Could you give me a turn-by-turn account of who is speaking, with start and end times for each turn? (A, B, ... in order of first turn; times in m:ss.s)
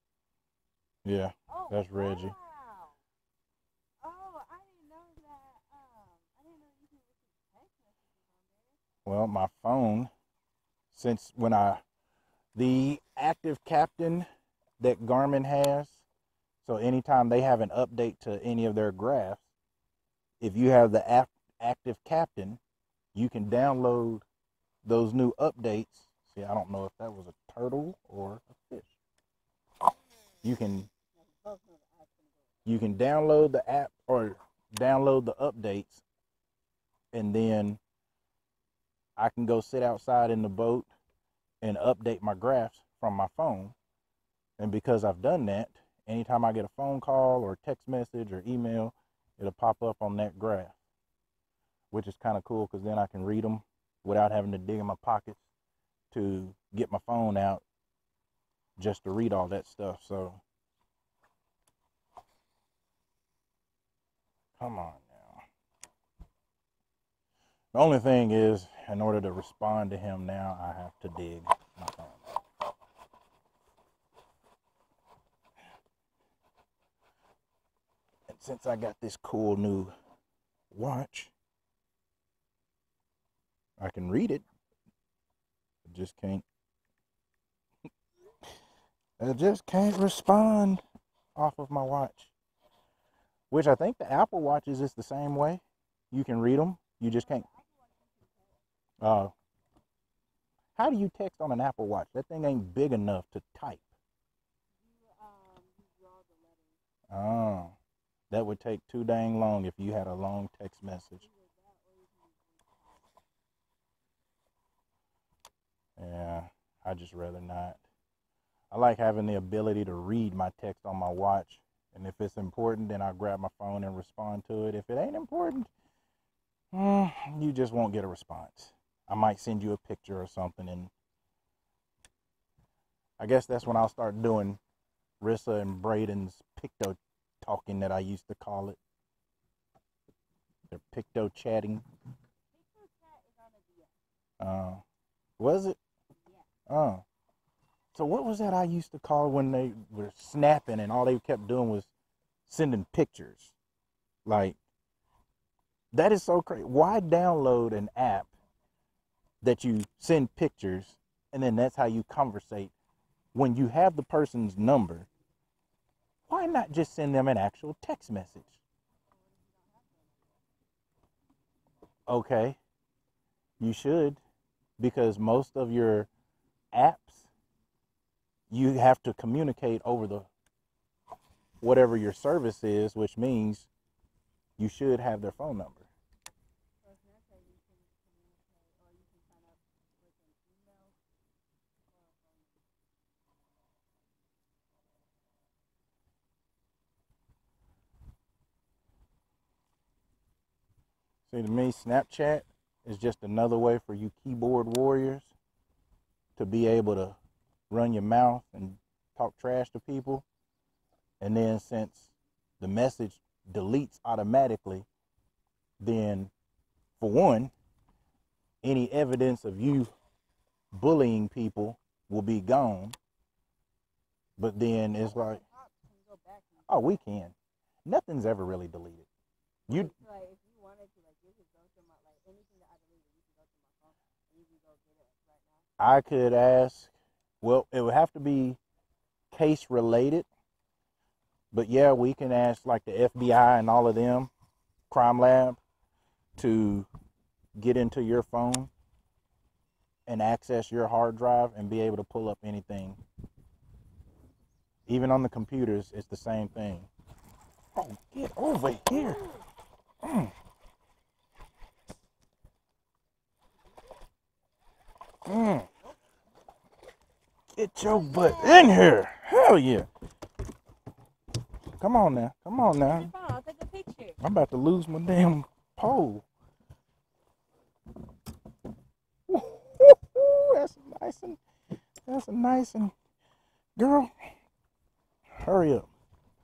0:01.0-0:02.3 A
0:01.5-0:03.0 B
0:04.0-0:08.8 B
0:09.0-0:10.1 A
0:10.9-0:11.8 A
0:12.5-0:14.3 A
0:14.8-0:16.0 A
0:16.6-0:19.4 A
0:20.4-0:22.6 A
0:23.1-0:24.2 A
0:24.8-0:29.0 A
0:30.4-0:30.9 A
0:31.2-0:32.5 B
0:32.6-0:36.0 A
0:37.1-0:37.8 A
0:39.2-0:40.9 A
0:41.6-0:43.7 A
0:44.6-0:50.7 A
0:51.9-0:55.4 A
0:56.1-0:57.6 A
0:58.8-1:00.4 A
1:04.6-1:05.4 A
1:07.7-1:12.3 A
1:18.3-1:19.9 A
1:20.7-1:21.3 A
1:23.8-1:24.4 A
1:25.8-1:26.4 A
1:29.2-1:30.8 A
1:31.4-1:32.3 A
1:33.5-1:37.4 A
1:37.2-1:38.6 B
1:39.0-1:39.3 A
1:40.8-1:43.9 A
1:44.8-1:46.8 B
1:47.1-1:47.7 A
1:48.3-1:51.2 A
1:51.2-1:53.1 B
1:56.0-1:57.8 A
1:58.7-2:05.7 A
2:06.7-2:10.9 A
2:13.2-2:14.6 A
2:15.2-2:18.8 A
2:20.7-2:21.8 A
2:22.5-2:23.9 B
2:24.4-2:24.8 A
2:25.4-2:25.8 A
2:26.7-2:27.0 A
2:27.9-2:31.9 A
2:32.5-2:33.6 A
2:34.2-2:34.6 A
2:35.9-2:38.3 A
2:39.4-2:42.7 A
2:43.3-2:45.1 A
2:46.3-2:48.6 A
2:49.1-2:50.4 B
2:52.1-2:52.6 A
2:53.6-2:54.2 A
2:54.8-2:56.1 A
2:56.7-2:57.3 A
2:58.5-3:00.3 A
3:01.6-3:03.7 A
3:04.6-3:05.8 A
3:06.8-3:10.9 B
3:11.9-3:12.6 B
3:21.3-3:25.3 A
3:26.4-3:27.2 A
3:27.7-3:30.2 A
3:31.2-3:34.9 A
3:35.8-3:36.3 A
3:37.0-3:37.5 A
3:38.6-3:39.9 A
3:40.7-3:43.0 A
3:44.4-3:45.4 A
3:45.1-3:47.0 B
3:46.7-3:47.3 A
3:47.8-3:49.1 A
3:49.7-3:55.7 B
3:55.8-3:58.6 A
3:59.3-4:00.3 A
4:01.5-4:04.3 A
4:04.9-4:05.6 A
4:06.4-4:06.9 A
4:07.6-4:08.7 A
4:10.0-4:13.0 A
4:14.9-4:16.9 A
4:17.7-4:19.2 A
4:19.1-4:19.4 B
4:20.0-4:20.3 A
4:25.2-4:25.7 A
4:27.5-4:29.9 A
4:27.9-4:28.7 B
4:31.8-4:33.1 A
4:32.8-4:34.2 B
4:34.2-4:36.2 A
4:39.3-4:41.4 A
4:42.1-4:42.9 A
4:43.8-4:44.3 A
4:45.3-4:45.9 A